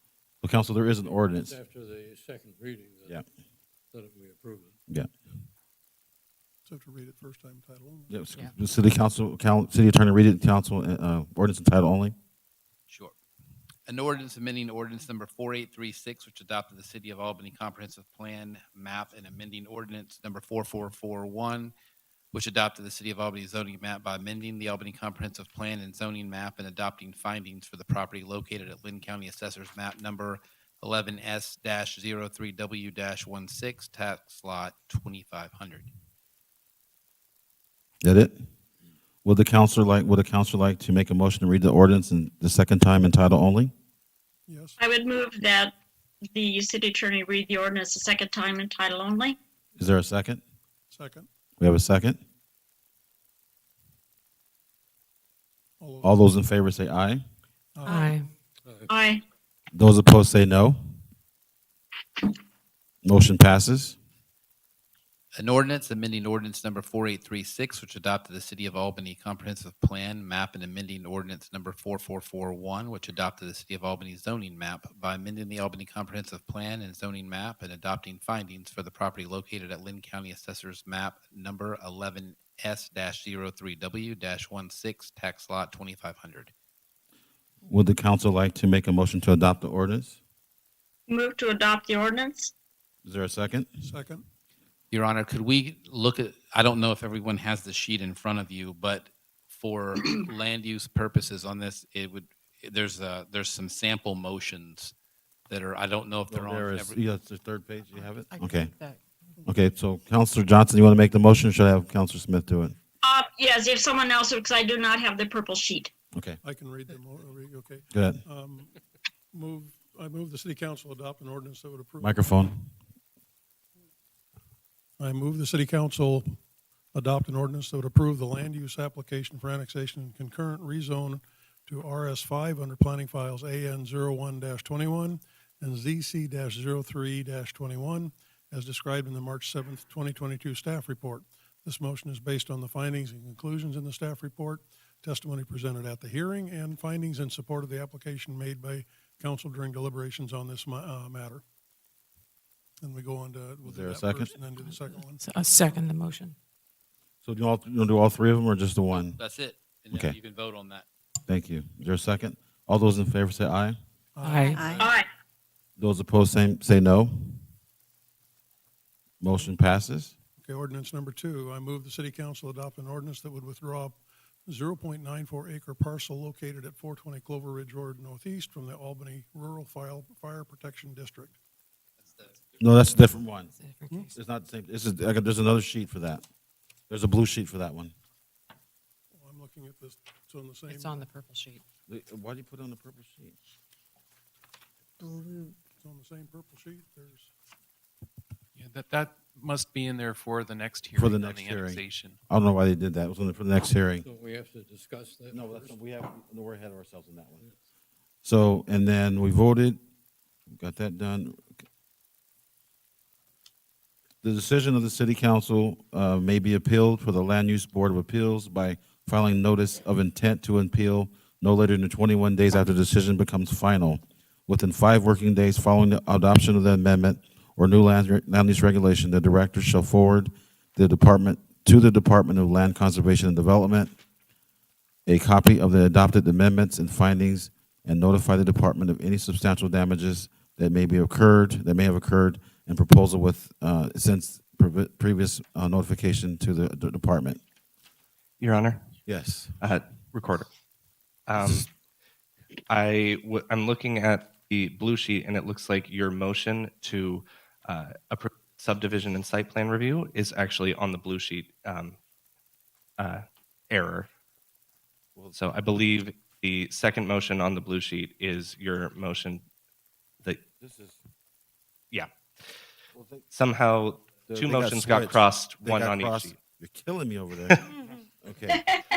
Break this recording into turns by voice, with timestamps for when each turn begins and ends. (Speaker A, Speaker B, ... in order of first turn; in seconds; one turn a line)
Speaker A: 0.4-1.6
Speaker B: 1.1-3.2
Speaker B: 3.9-4.8
Speaker C: 6.7-8.1
Speaker A: 8.1-12.2
Speaker D: 12.9-13.2
Speaker D: 13.9-21.7
Speaker D: 22.3-35.9
Speaker A: 38.0-38.4
Speaker A: 39.2-43.7
Speaker C: 44.5-44.7
Speaker E: 44.8-45.8
Speaker E: 46.3-49.4
Speaker A: 49.8-50.4
Speaker C: 50.9-51.3
Speaker A: 51.6-52.2
Speaker C: 55.8-56.2
Speaker A: 56.0-57.2
Speaker C: 57.8-58.2
Speaker F: 57.9-58.3
Speaker B: 58.6-58.9
Speaker E: 58.9-59.2
Speaker A: 59.7-60.8
Speaker A: 63.0-64.0
Speaker D: 65.4-86.5
Speaker A: 87.7-90.2
Speaker E: 91.1-92.5
Speaker A: 93.0-93.7
Speaker C: 93.8-94.2
Speaker D: 94.9-104.9
Speaker D: 105.5-107.0
Speaker A: 106.3-108.7
Speaker F: 108.4-109.0
Speaker A: 109.5-112.8
Speaker E: 113.0-115.9
Speaker C: 116.4-118.7
Speaker A: 117.9-118.2
Speaker C: 119.3-122.3
Speaker A: 122.0-122.7
Speaker C: 125.0-126.4
Speaker C: 126.9-151.4
Speaker C: 152.8-155.2
Speaker A: 153.7-154.3
Speaker F: 155.2-156.4
Speaker A: 157.2-159.2
Speaker D: 159.2-160.9
Speaker A: 161.3-163.8
Speaker C: 164.2-164.8
Speaker F: 164.2-164.6
Speaker E: 164.8-165.1
Speaker A: 165.8-167.4
Speaker A: 169.2-170.2
Speaker C: 170.4-181.3
Speaker D: 182.0-182.3
Speaker A: 182.6-183.5
Speaker F: 183.6-184.1
Speaker A: 184.1-186.2
Speaker A: 186.9-187.9
Speaker C: 189.2-191.0
Speaker F: 190.7-191.6
Speaker A: 191.9-193.3
Speaker C: 195.8-197.3
Speaker G: 198.6-202.2
Speaker A: 201.0-204.1
Speaker B: 204.0-205.8
Speaker A: 205.3-207.4
Speaker A: 208.2-209.8
Speaker A: 210.6-211.5
Speaker A: 214.2-233.9
Speaker A: 235.1-247.4
Speaker H: 248.4-248.8
Speaker A: 249.1-249.6
Speaker H: 249.6-250.5
Speaker H: 251.3-251.7
Speaker H: 252.7-262.0
Speaker H: 263.0-264.1
Speaker H: 265.3-269.4
Speaker A: 270.6-271.0
Speaker A: 272.9-273.2
Speaker H: 273.3-276.3
Speaker A: 274.3-278.7